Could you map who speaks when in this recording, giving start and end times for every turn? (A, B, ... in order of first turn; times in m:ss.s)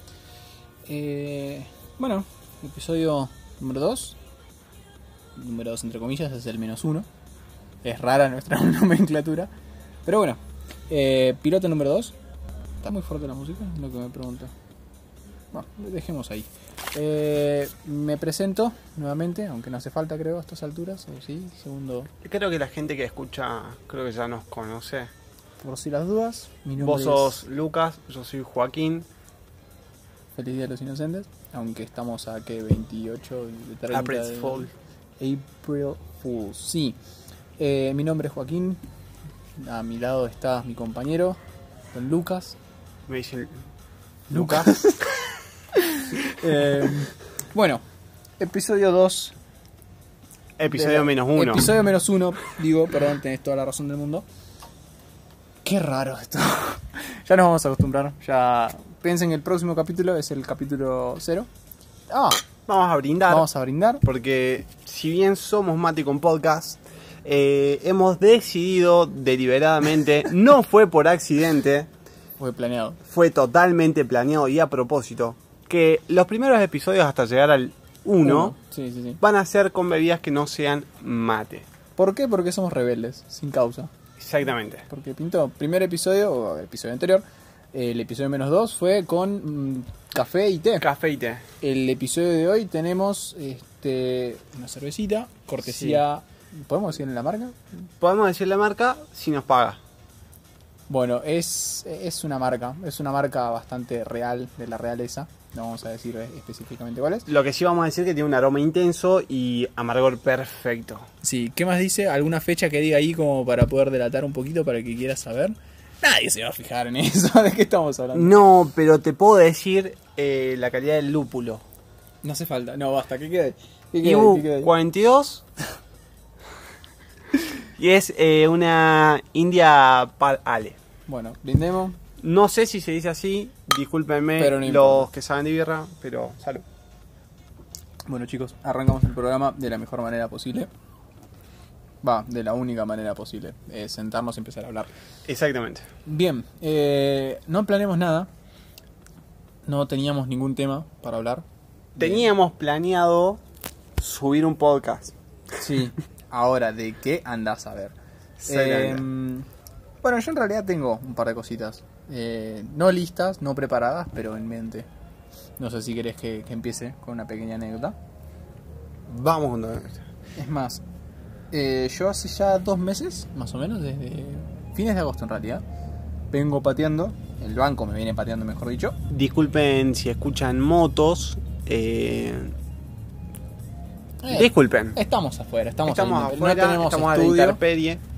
0:00.8-0:04.2 A
0:05.4-0:07.1 A
0:07.8-0:09.5 A
0:10.0-0:12.1 A
0:12.8-0:14.5 A
0:15.5-0:22.1 A
0:22.2-0:25.1 B
0:25.6-0:27.4 A
0:26.8-0:29.1 B
0:30.4-0:34.7 A
0:33.9-0:34.7 B
0:35.2-0:37.0 A
0:37.6-0:38.8 A
0:39.6-0:41.4 A
0:41.9-0:42.6 A
0:43.1-0:43.5 B
0:44.3-0:44.8 B
0:44.3-0:45.2 A
0:45.9-0:47.8 A
0:48.4-0:49.4 A
0:50.6-0:51.7 B
0:50.7-0:54.2 A
0:55.6-1:01.5 A
1:02.1-1:02.4 A
1:02.7-1:03.4 B
1:03.3-1:04.0 A
1:04.0-1:11.9 B
1:12.4-1:13.0 A
1:13.0-1:18.5 B
1:18.2-1:19.2 A
1:19.2-1:21.7 B
1:22.0-1:23.9 A
1:24.2-1:24.8 B
1:24.9-1:30.9 A
1:30.8-1:31.4 B
1:31.6-1:37.6 A
1:35.6-1:36.0 B
1:38.0-1:39.8 B
1:40.9-1:47.3 A
1:47.3-1:51.1 B
1:51.2-1:58.4 A
1:58.1-2:01.6 B
2:02.2-2:04.7 A
2:04.0-2:05.4 B
2:07.8-2:10.8 B
2:11.1-2:12.0 A
2:12.2-2:16.6 B
2:14.4-2:15.1 A
2:18.1-2:20.7 A
2:22.0-2:24.9 A
2:25.2-2:25.8 B
2:26.0-2:28.3 A
2:29.6-2:31.4 A
2:32.0-2:32.3 A
2:32.0-2:33.4 B
2:34.0-2:35.1 B
2:35.6-2:37.9 A
2:38.4-2:39.0 B
2:38.5-2:39.4 A
2:40.0-2:44.9 A
2:45.6-2:48.0 A
2:49.1-2:50.0 B
2:50.4-2:50.8 A
2:51.5-2:55.6 A
2:56.3-2:59.0 A
2:59.1-3:02.6 B
3:04.2-3:07.6 A
3:04.3-3:05.0 B
3:05.8-3:08.0 B